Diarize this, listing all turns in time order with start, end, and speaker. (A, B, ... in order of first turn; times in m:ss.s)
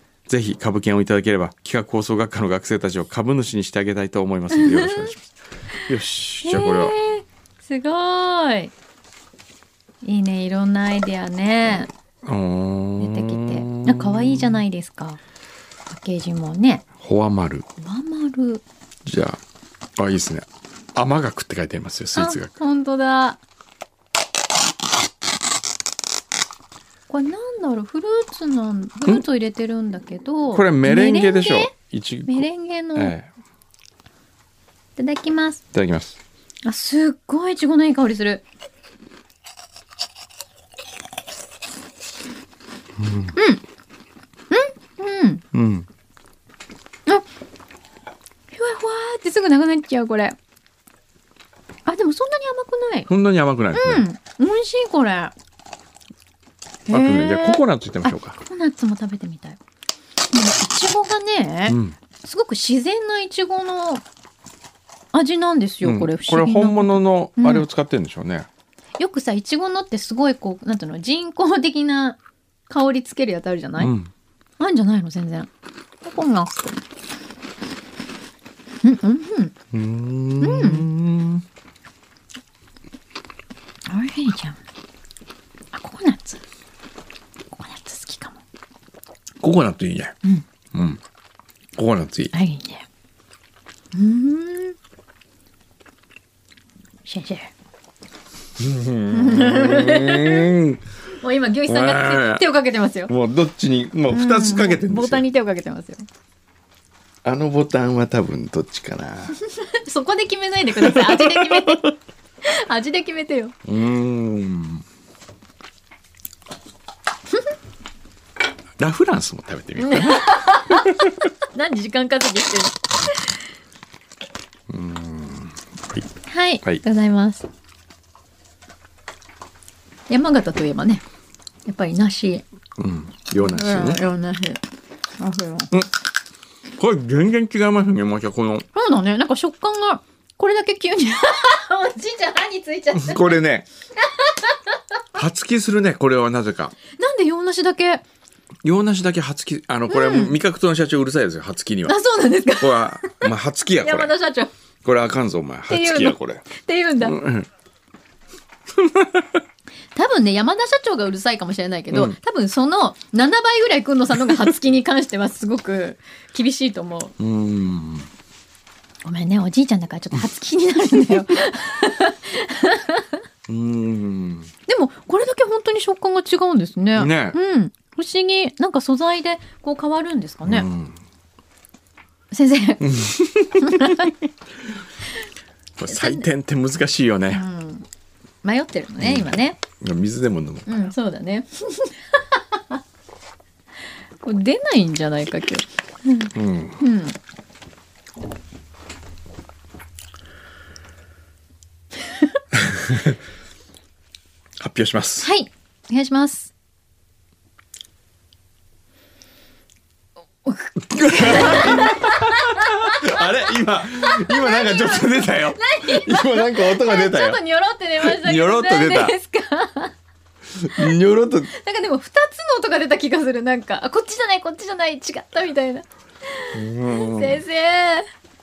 0:00.3-0:05.2 A
0:04.5-0:05.1 B
0:05.9-0:07.0 A
0:06.4-0:08.7 B
0:10.0-0:11.9 B
0:12.2-0:14.6 A
0:13.0-0:15.2 B
0:15.9-0:16.8 B
0:17.0-0:17.7 A
0:17.8-0:18.6 B
0:19.0-0:19.4 A
0:20.0-0:22.5 A
0:22.2-0:23.4 B
0:27.1-0:31.7 B
0:30.5-0:33.3 A
0:32.3-0:33.1 B
0:35.0-0:35.6 B
0:35.7-0:36.2 A
0:36.6-0:38.4 B
0:43.0-0:43.3 A
0:43.3-0:43.6 B
0:44.5-0:45.4 B
0:45.5-0:45.9 A
0:48.5-0:50.4 B
0:51.9-0:53.1 B
0:53.1-0:54.1 A
0:53.7-0:55.3 B
0:56.9-0:59.6 B
0:56.9-0:58.4 A
1:00.3-1:04.0 B
1:01.7-1:02.0 A
1:05.1-1:07.7 B
1:05.8-1:08.5 A
1:09.0-1:12.2 B
1:12.7-1:13.9 B
1:13.8-1:14.1 A
1:14.6-1:15.5 B
1:16.0-1:16.8 B
1:18.8-1:19.5 B
1:19.7-1:21.4 A
1:20.4-1:20.8 B
1:23.9-1:24.6 B
1:25.7-1:26.4 B
1:27.5-1:28.4 B
1:29.4-1:30.2 A
1:30.7-1:31.0 A
1:31.8-1:32.3 A
1:32.3-1:32.8 B
1:33.9-1:34.8 B
1:37.1-1:37.5 B
1:38.6-1:40.8 A
1:39.1-1:40.5 B
1:41.2-1:43.1 B
1:41.7-1:42.4 A
1:43.1-1:45.2 A
1:44.1-1:46.0 B
1:47.2-1:49.3 A
1:49.4-1:51.9 B
1:50.7-1:51.9 A
1:52.4-1:53.5 B
1:53.6-1:54.8 A
1:58.8-2:01.2 A
1:59.8-2:03.4 B
2:04.7-2:06.1 A
2:06.3-2:07.5 B
2:10.1-2:11.0 B
2:11.7-2:12.4 B
2:12.8-2:14.0 A
2:13.4-2:14.6 B
2:15.2-2:15.7 B
2:16.8-2:18.7 A
2:18.7-2:23.4 B
2:22.9-2:23.7 A
2:24.2-2:24.5 B
2:25.2-2:26.8 A
2:26.9-2:28.0 B
2:28.6-2:32.0 A
2:29.9-2:30.4 B
2:31.9-2:34.5 B
2:32.6-2:34.1 A
2:34.8-2:36.4 A
2:35.7-2:37.2 B
2:37.0-2:37.5 A
2:38.8-2:39.4 A
2:40.0-2:47.1 B
2:41.9-2:42.2 A
2:47.2-2:48.1 A
2:49.0-2:53.2 B
2:53.5-2:54.5 A
2:54.7-3:00.7 B
2:57.0-2:57.4 A
3:00.4-3:01.0 A
3:02.3-3:04.2 B
3:02.8-3:04.1 A
3:05.8-3:07.4 A
3:05.9-3:06.3 B
3:07.3-3:07.9 B
3:08.4-3:09.6 B
3:09.0-3:10.8 A
3:10.7-3:12.6 B
3:14.2-3:17.2 B
3:16.3-3:16.8 A
3:22.5-3:23.2 A
3:24.6-3:25.3 A
3:25.2-3:26.5 B
3:30.4-3:33.0 B
3:30.9-3:37.4 A
3:34.1-3:39.9 B
3:38.0-3:39.2 A
3:40.6-3:41.5 A
3:41.5-3:48.1 B
3:46.5-3:47.4 A